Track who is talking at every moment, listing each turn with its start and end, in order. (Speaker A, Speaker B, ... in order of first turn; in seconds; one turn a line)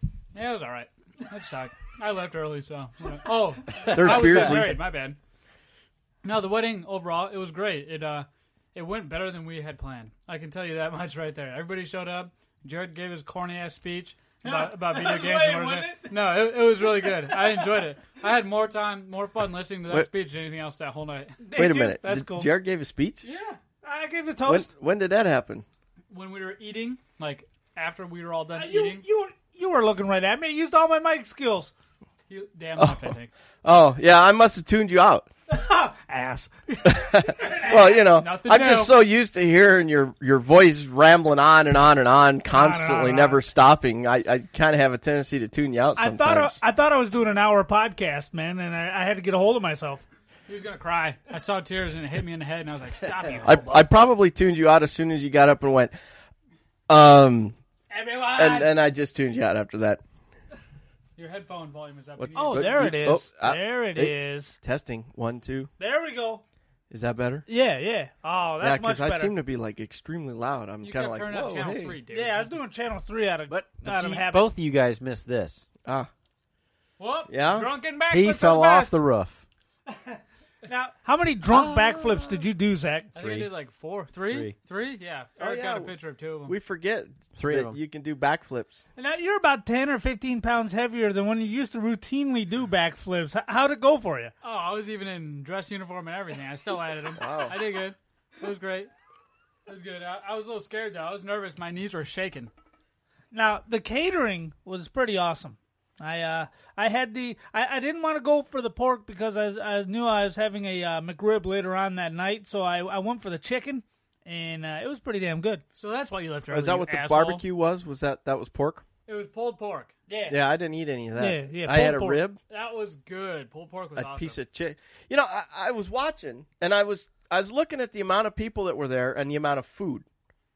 Speaker A: 0.3-5.2
Speaker B: 3.9-4.8
Speaker C: 4.1-4.4
Speaker A: 6.2-21.4
Speaker D: 14.4-16.1
Speaker D: 17.0-17.8
Speaker D: 21.4-22.5
Speaker B: 21.5-23.2
Speaker A: 23.2-23.6
Speaker D: 23.8-24.7
Speaker B: 24.4-25.6
Speaker A: 26.1-29.0
Speaker D: 28.5-31.7
Speaker A: 32.3-33.3
Speaker B: 32.8-33.1
Speaker B: 33.6-35.3
Speaker D: 35.5-38.0
Speaker B: 36.9-46.6
Speaker A: 37.5-39.0
Speaker D: 42.5-43.4
Speaker D: 46.0-50.0
Speaker A: 50.5-53.8
Speaker B: 53.4-55.9
Speaker B: 56.9-57.5
Speaker A: 57.9-58.7
Speaker B: 58.3-60.0
Speaker A: 61.1-62.9
Speaker B: 62.2-65.7
Speaker D: 62.3-64.6
Speaker D: 65.8-66.4
Speaker B: 66.9-67.4
Speaker D: 67.5-69.3
Speaker B: 68.6-71.8
Speaker A: 70.8-72.5
Speaker C: 71.3-72.0
Speaker D: 72.1-74.5
Speaker C: 73.5-75.7
Speaker A: 77.0-78.9
Speaker B: 77.3-77.7
Speaker C: 78.1-79.4
Speaker D: 79.9-83.1
Speaker B: 81.5-82.3
Speaker A: 83.1-86.5
Speaker C: 83.2-83.5
Speaker C: 84.2-84.5
Speaker B: 85.4-85.9
Speaker B: 86.5-88.8
Speaker C: 87.3-87.8
Speaker D: 89.0-94.3
Speaker A: 94.4-98.9
Speaker B: 97.1-97.5
Speaker A: 99.7-102.5
Speaker D: 103.3-115.6
Speaker A: 115.7-117.4
Speaker B: 116.5-118.8
Speaker A: 119.0-119.9
Speaker D: 120.1-120.4
Speaker B: 120.3-122.4
Speaker D: 121.2-122.2
Speaker A: 122.5-124.4
Speaker B: 124.0-130.0